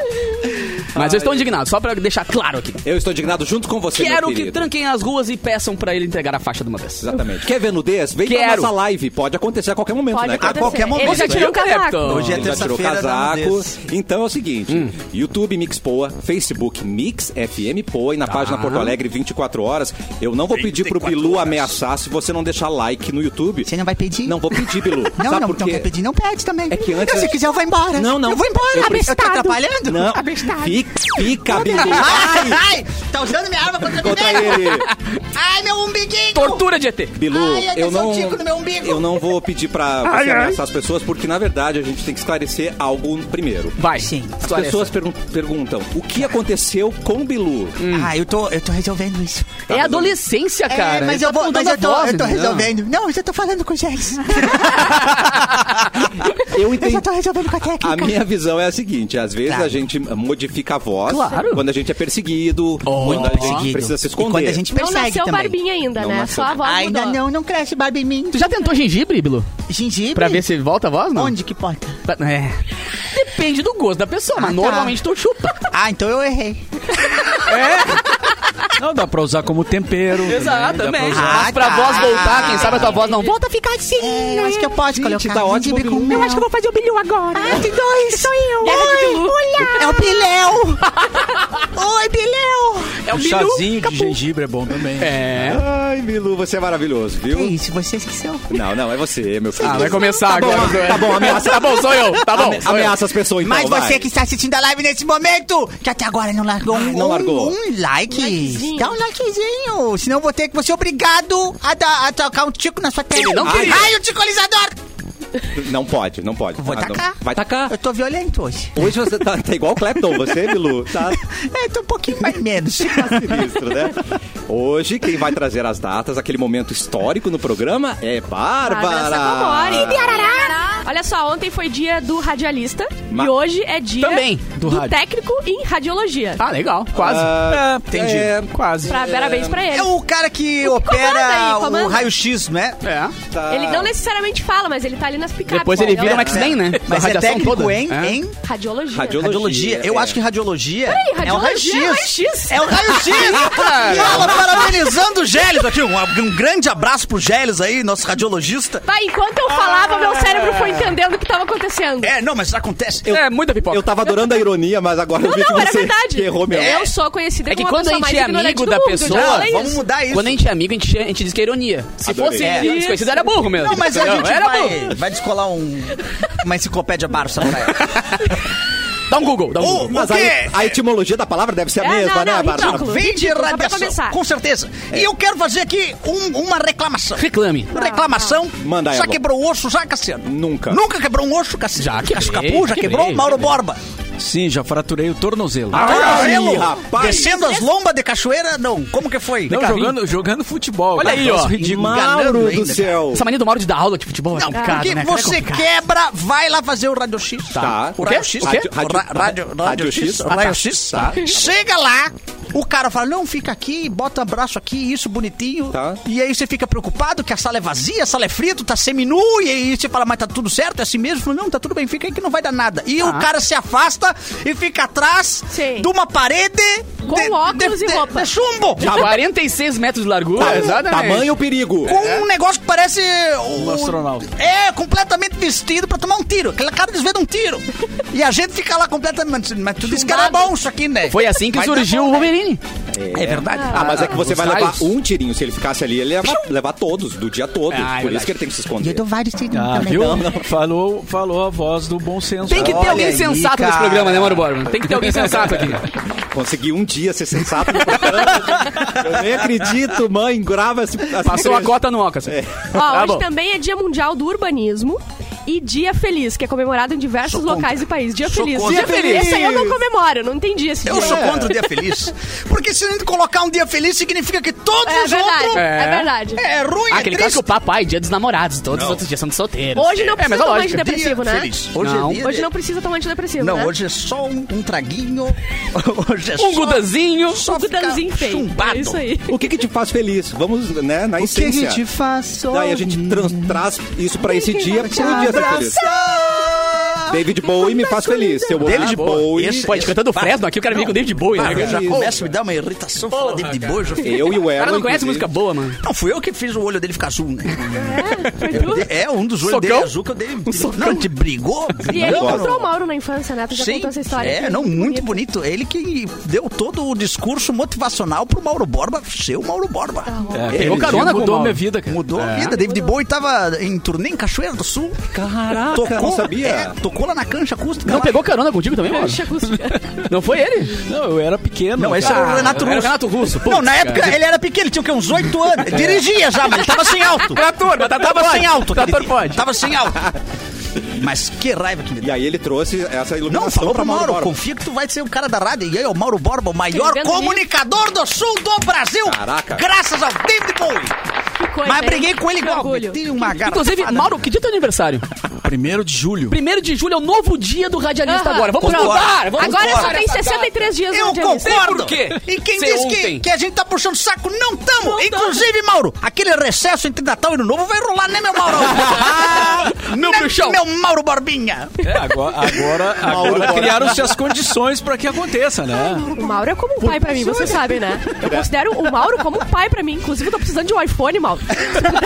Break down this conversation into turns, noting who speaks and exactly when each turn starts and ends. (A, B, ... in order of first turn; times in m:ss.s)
0:00.9-0:02.8 A
0:00.9-0:01.5 B
0:02.8-0:04.7 B
0:03.9-0:07.1 A
0:07.0-0:11.0 B
0:08.2-0:08.7 A
0:10.1-0:12.3 C
0:10.4-0:13.7 D
0:10.9-0:12.5 A
0:12.3-0:23.7 B
0:18.3-0:18.9 A
0:20.5-0:21.7 D
0:23.6-0:36.6 D
0:24.2-0:25.9 B
0:26.7-0:32.6 B
0:33.9-0:34.9 B
0:36.3-0:37.1 A
0:37.1-0:43.8 B
0:37.3-0:39.2 D
0:40.0-0:40.6 A
0:43.8-0:44.9 A
0:44.0-0:44.4 D
0:44.4-0:47.8 B
0:47.8-0:48.1 A
0:47.9-0:49.7 D
0:49.7-0:50.1 B
0:49.7-0:52.7 A
0:50.7-0:58.2 D
0:54.6-0:55.3 A
0:56.3-0:57.0 B
0:57.8-1:04.6 B
0:59.5-0:59.7 D
1:01.1-1:01.6 A
1:02.8-1:03.7 A
1:03.0-1:05.6 D
1:04.7-1:07.2 C
1:06.0-1:06.6 B
1:06.6-1:08.5 D
1:08.3-1:09.5 A
1:09.7-1:10.4 D
1:10.1-1:11.3 A
1:11.1-1:12.0 D
1:12.0-1:15.7 A
1:14.4-1:15.0 D
1:15.7-1:17.4 D
1:17.4-1:18.3 A
1:18.8-1:21.4 E
1:20.1-1:23.4 A
1:21.1-1:31.0 D
1:21.7-1:23.3 C
1:24.9-1:26.5 B
1:27.3-1:30.0 C
1:27.4-1:27.7 B
1:31.6-1:33.1 D
1:33.0-1:34.0 A
1:33.1-1:35.3 E
1:35.0-1:35.6 A
1:35.4-1:37.5 B
1:37.3-1:38.5 D
1:38.5-1:44.0 B
1:39.6-1:43.0 A
1:39.6-1:40.7 D
1:43.4-1:54.7 D
1:46.7-1:47.6 B
1:48.1-1:49.0 C
1:53.1-1:53.9 A
1:53.4-1:53.9 B
1:55.5-1:57.7 B
1:56.6-1:58.7 D
1:58.7-2:01.2 B
2:01.1-2:03.6 D
2:02.8-2:10.2 B
2:08.6-2:16.4 C
2:10.1-2:10.3 D
2:14.0-2:14.4 A
2:14.6-2:15.0 E
2:16.4-2:17.8 A
2:16.9-2:19.7 B
2:17.9-2:18.3 D
2:18.4-2:19.0 A
2:18.8-2:19.9 C
2:19.7-2:22.8 D
2:20.6-2:22.1 C
2:22.8-2:23.1 A
2:23.3-2:23.9 B
2:23.5-2:26.4 C
2:25.5-2:28.2 A
2:26.0-2:26.5 B
2:26.1-2:28.3 D
2:28.4-2:29.3 C
2:28.9-2:30.2 B
2:29.1-2:38.8 D
2:30.8-2:32.7 C
2:33.0-2:34.6 A
2:38.8-2:42.1 C
2:39.4-2:40.9 D
2:42.0-2:43.1 D
2:43.1-2:46.9 B
2:43.1-2:43.9 A
2:45.2-2:49.8 C
2:46.5-2:46.9 D
2:47.5-2:49.5 A
2:49.0-2:50.4 D
2:50.1-2:55.0 A
2:52.0-2:52.6 B
2:52.4-2:53.9 C
2:52.4-2:52.7 D
2:53.6-2:58.1 D
2:57.7-2:58.4 A
2:59.1-3:00.0 A
2:59.6-3:00.7 D
2:59.8-3:03.0 B
3:01.8-3:04.2 C
3:02.6-3:13.8 D
3:07.2-3:07.7 A
3:07.7-3:08.3 C
3:08.6-3:09.2 B
3:10.2-3:10.8 B
3:11.8-3:13.5 A
3:14.2-3:16.0 E
3:15.7-3:17.4 B
3:15.7-3:19.7 D
3:16.0-3:16.6 A
3:17.0-3:17.7 C
3:19.5-3:21.9 E
3:19.5-3:20.0 A
3:21.0-3:21.6 A
3:21.4-3:23.2 B
3:21.8-3:23.0 D
3:23.1-3:25.7 A
3:24.3-3:49.1 D
3:24.5-3:24.9 C
3:27.5-3:28.7 A
3:27.6-3:31.6 B
3:35.7-3:36.0 B
3:43.0-3:43.3 A
3:45.5-3:45.9 C
3:47.0-3:48.3 C
3:48.8-3:49.2 B
3:48.8-3:51.3 A
3:50.4-3:52.0 B
3:51.8-4:02.3 D
3:51.9-3:52.2 A
3:53.5-3:54.3 E
3:59.8-4:00.5 A
4:01.0-4:02.6 A
4:02.9-4:09.0 B
4:03.1-4:04.0 D
4:03.5-4:03.8 C
4:03.7-4:04.9 A
4:07.7-4:08.4 A
4:08.8-4:10.4 D
4:09.5-4:13.2 E
4:10.0-4:10.4 B
4:12.5-4:15.9 A
4:12.5-4:14.4 D
4:16.3-4:22.9 B
4:21.2-4:23.2 A
4:22.7-4:31.8 C
4:27.2-4:29.5 D
4:28.6-4:29.4 A
4:29.0-4:29.8 B
4:30.8-4:35.6 D
4:30.9-4:31.6 B
4:34.8-4:36.4 C
4:35.5-4:36.1 A
4:36.3-4:37.4 D
4:36.9-4:40.9 A
4:38.7-4:39.0 D
4:39.7-4:41.5 C
4:40.7-4:42.5 D
4:41.8-4:42.2 A
4:42.2-4:43.7 C
4:43.4-4:49.0 D
4:46.4-4:47.4 A
4:47.4-4:49.4 C
4:49.3-4:51.8 B
4:51.2-4:53.6 D
4:52.5-4:55.9 B
4:54.4-4:57.2 D
4:57.1-4:59.8 B
4:57.5-4:58.6 C
4:58.6-5:04.4 D
4:58.6-5:02.1 A
5:01.4-5:02.2 B
5:03.1-5:05.8 A
5:04.0-5:05.3 B
5:05.8-5:12.7 D
5:07.8-5:08.9 C
5:09.4-5:11.1 A
5:11.8-5:15.2 C
5:11.8-5:12.5 B
5:13.5-5:21.1 D
5:20.1-5:20.6 C
5:20.3-5:22.5 E
5:20.5-5:21.6 A
5:20.6-5:21.0 B
5:21.8-5:25.0 D
5:22.4-5:23.0 C
5:25.1-5:26.8 B
5:25.7-5:28.2 D
5:27.8-5:30.7 A
5:28.9-5:29.8 C
5:30.8-5:32.6 E
5:31.8-5:40.1 D
5:32.0-5:34.2 A
5:36.6-5:39.5 A
5:40.9-5:42.1 D
5:42.0-5:44.3 B
5:43.3-5:51.0 D
5:46.7-5:47.4 C
5:49.0-5:49.6 B
5:51.4-5:53.0 C
5:51.6-5:54.1 D
5:53.3-5:55.0 A
5:55.4-5:56.4 E
5:56.3-6:00.6 A
5:58.0-6:01.8 C
5:58.6-6:00.0 D
6:00.9-6:12.0 D
6:01.4-6:03.2 A
6:04.8-6:05.4 A
6:08.8-6:10.6 A
6:11.8-6:16.1 E
6:13.0-6:14.2 B
6:13.4-6:13.6 D
6:15.9-6:21.8 C
6:16.9-6:17.4 D
6:18.1-6:18.5 B